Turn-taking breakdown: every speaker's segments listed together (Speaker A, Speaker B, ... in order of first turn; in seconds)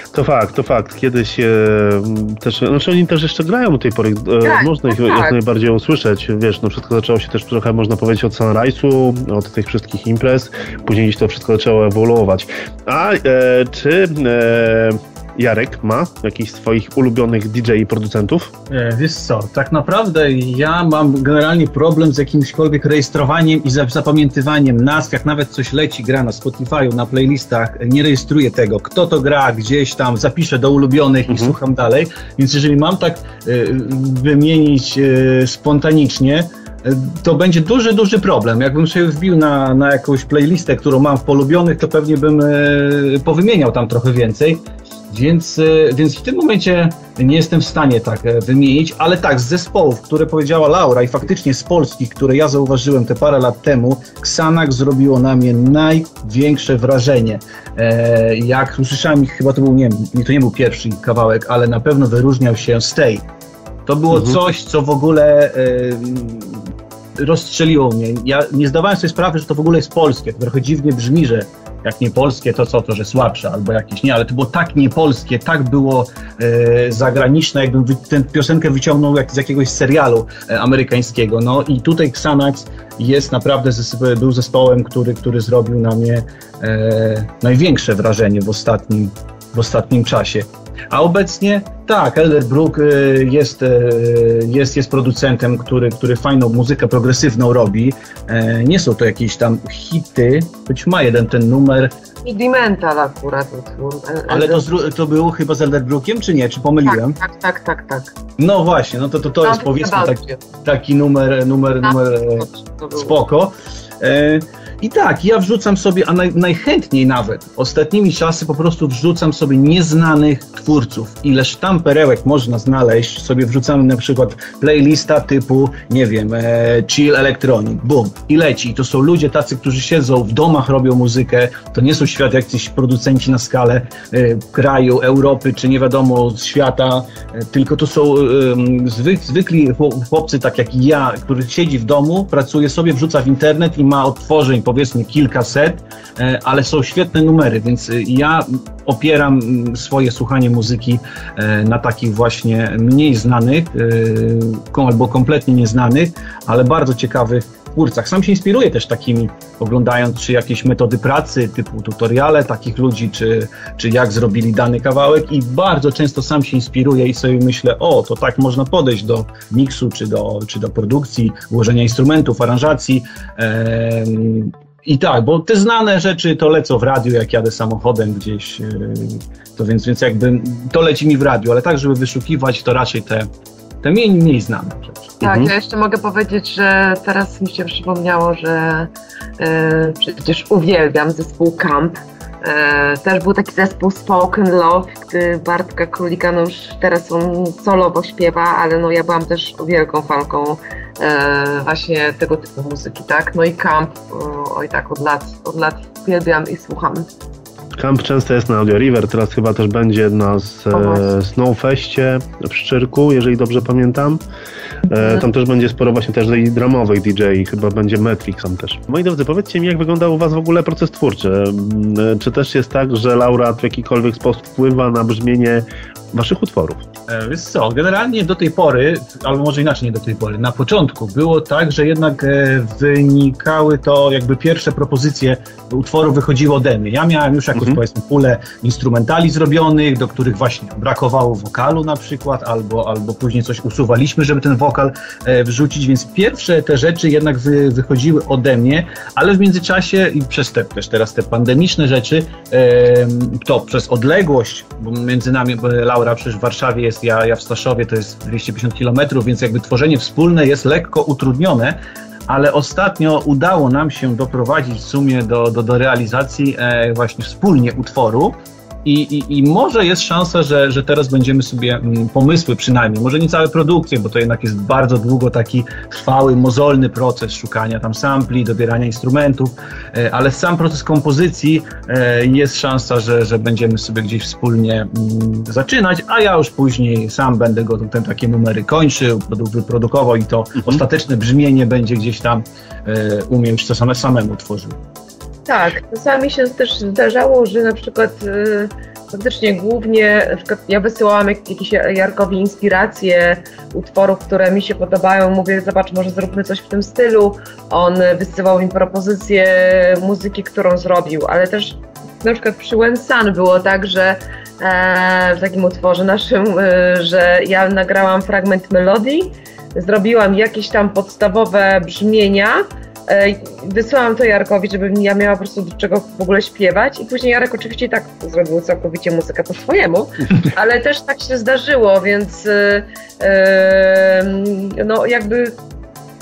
Speaker A: 0.1-18.5, 31.3-31.6, 185.2-185.5, 207.8-214.2, 214.9-226.8
Speaker B: 4.4-5.4, 102.2-104.6, 106.8-108.1, 109.4-110.4, 111.8-113.1, 185.2-207.1, 210.7-211.1, 214.9-215.2, 295.5-335.6
Speaker C: 18.7-63.2, 63.9-101.9, 104.3-107.2, 108.4-183.3, 183.8-185.2, 227.1-294.8